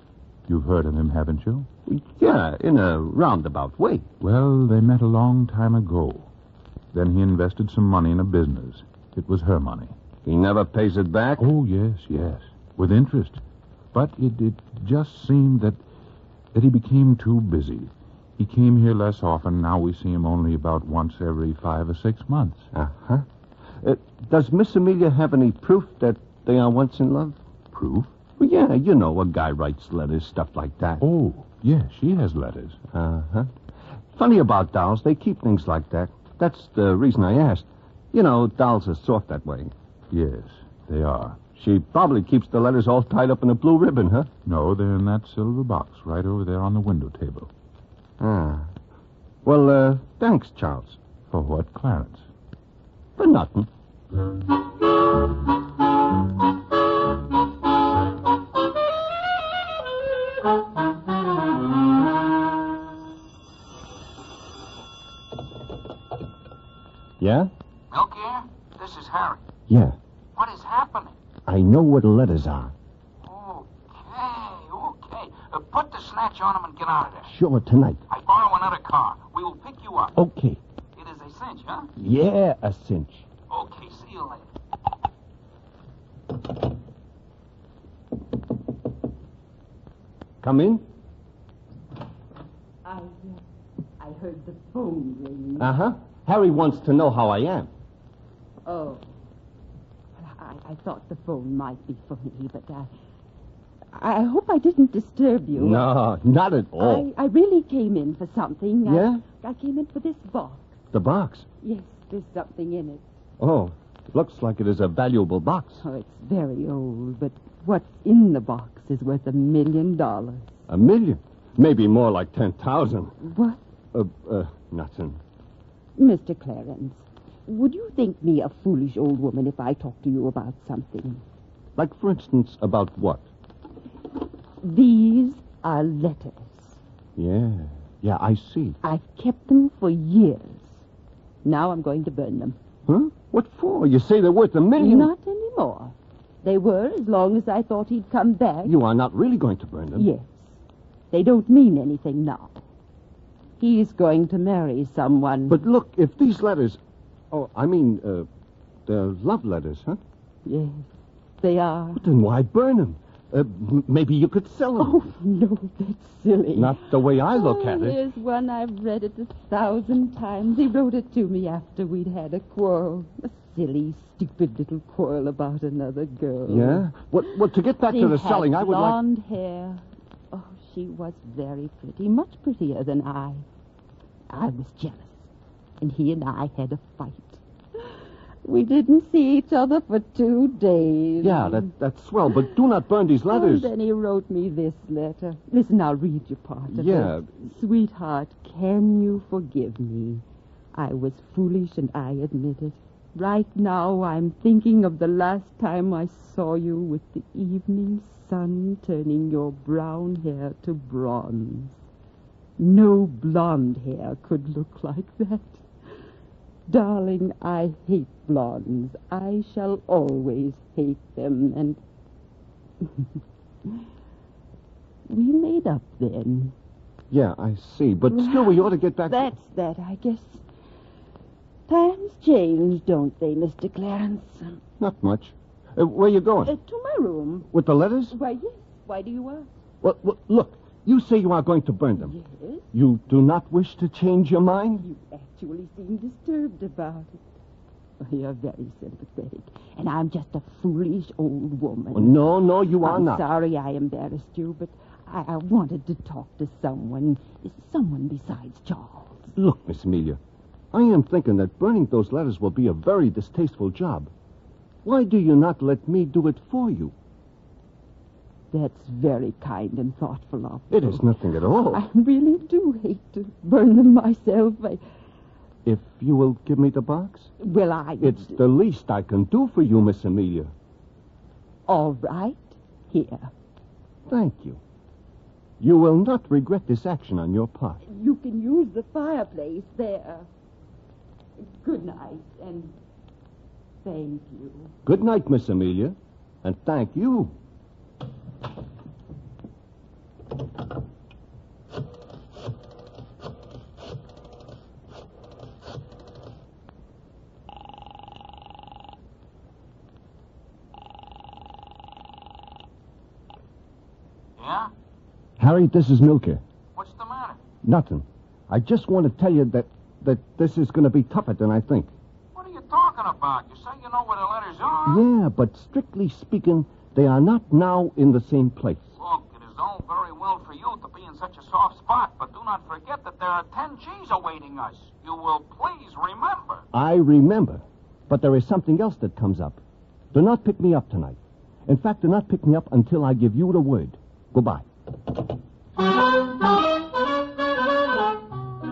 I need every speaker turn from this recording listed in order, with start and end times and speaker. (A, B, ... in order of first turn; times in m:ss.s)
0:00.5-0:01.7 A
0:01.9-0:04.1 B
0:04.2-0:06.3 A
0:06.9-0:10.0 A
0:10.2-0:11.5 B
0:11.4-0:13.4 A
0:13.9-0:15.8 A
0:16.5-0:22.7 A
0:22.7-0:23.3 B
0:23.8-0:27.4 B
0:27.7-0:28.1 A
0:28.4-0:31.0 B
0:31.0-0:32.8 A
0:32.9-0:33.5 B
0:34.2-0:39.7 B
0:40.1-0:41.4 A
0:41.6-0:44.3 B
0:44.4-0:47.5 A
0:48.2-0:48.7 B
0:49.4-0:51.0 B
0:51.3-0:52.3 A
0:53.2-0:53.7 B
1:07.2-1:07.5 B
1:07.9-1:09.4 C
1:09.7-1:10.0 B
1:10.4-1:11.2 C
1:11.5-1:12.7 B
1:13.2-1:17.3 C
1:17.3-1:18.0 B
1:18.1-1:20.2 C
1:20.2-1:20.6 B
1:21.0-1:21.9 C
1:22.0-1:23.3 B
1:23.5-1:24.4 C
1:30.4-1:30.8 B
1:32.8-1:33.4 D
1:34.0-1:35.7 D
1:35.6-1:37.7 B
1:38.6-1:39.0 D
1:40.2-1:42.9 D
1:43.9-1:45.9 D
1:45.6-1:47.1 B
1:46.8-1:50.7 D
1:48.9-1:49.2 B
1:50.9-1:51.5 B
1:51.6-1:53.0 D
1:53.4-1:55.8 B
1:55.8-2:00.6 D
2:00.7-2:03.2 B
2:03.2-2:03.6 D
2:03.9-2:05.2 B
2:06.0-2:11.2 D
2:11.8-2:13.2 B
2:14.6-2:16.8 D
2:17.2-2:18.8 B
2:18.8-2:20.8 D
2:21.4-2:22.6 D
2:22.9-2:25.1 B
2:24.8-2:28.8 D
2:28.6-2:30.1 B
2:30.0-2:30.6 D
2:31.1-2:32.6 D
2:33.6-2:35.6 D
2:35.5-2:36.8 B
2:37.3-2:38.3 B
2:38.9-2:40.0 B
2:40.4-2:40.9 D
2:41.4-2:42.0 D
2:42.0-2:45.1 B
2:44.8-3:03.4 D
2:46.6-2:48.0 B
2:56.5-2:59.0 B
3:04.3-3:05.3 D
3:05.8-3:07.4 D
3:08.4-3:11.7 D
3:11.2-3:13.7 B
3:13.3-3:20.2 D
3:16.7-3:17.3 B
3:20.7-3:31.8 D
3:32.6-3:35.7 D
3:36.7-3:41.8 D
3:45.1-3:46.5 D
3:47.1-3:49.3 B
3:48.1-3:50.4 D
3:51.7-3:54.6 D
3:54.8-3:56.5 B
3:56.4-3:57.5 D
3:57.5-3:58.2 B
3:58.1-3:59.5 D
3:59.8-4:02.1 B
4:02.0-4:02.7 D
4:02.7-4:04.9 B
4:04.8-4:07.2 D
4:08.0-4:12.2 D
4:11.9-4:13.2 B
4:12.8-4:19.3 D
4:19.4-4:20.2 B
4:20.7-4:24.1 B
4:24.8-4:26.9 B
4:28.5-4:31.1 D
4:30.7-4:31.8 B
4:31.6-4:34.8 D
4:35.6-4:37.3 B
4:37.4-4:38.4 D
4:38.0-4:40.5 B
4:41.7-4:43.3 D
4:44.1-4:44.6 B
4:45.6-4:47.8 B
4:47.8-4:50.3 D
4:51.4-4:52.8 D
4:53.8-4:54.7 D
4:54.9-4:57.3 B
5:14.4-5:14.7 C
5:15.4-5:16.4 B
5:16.8-5:17.4 C
5:17.6-5:21.9 B
5:22.4-5:25.0 C
5:24.9-5:28.9 B
5:29.0-5:36.7 C
5:36.7-5:39.6 B
5:40.1-5:44.7 B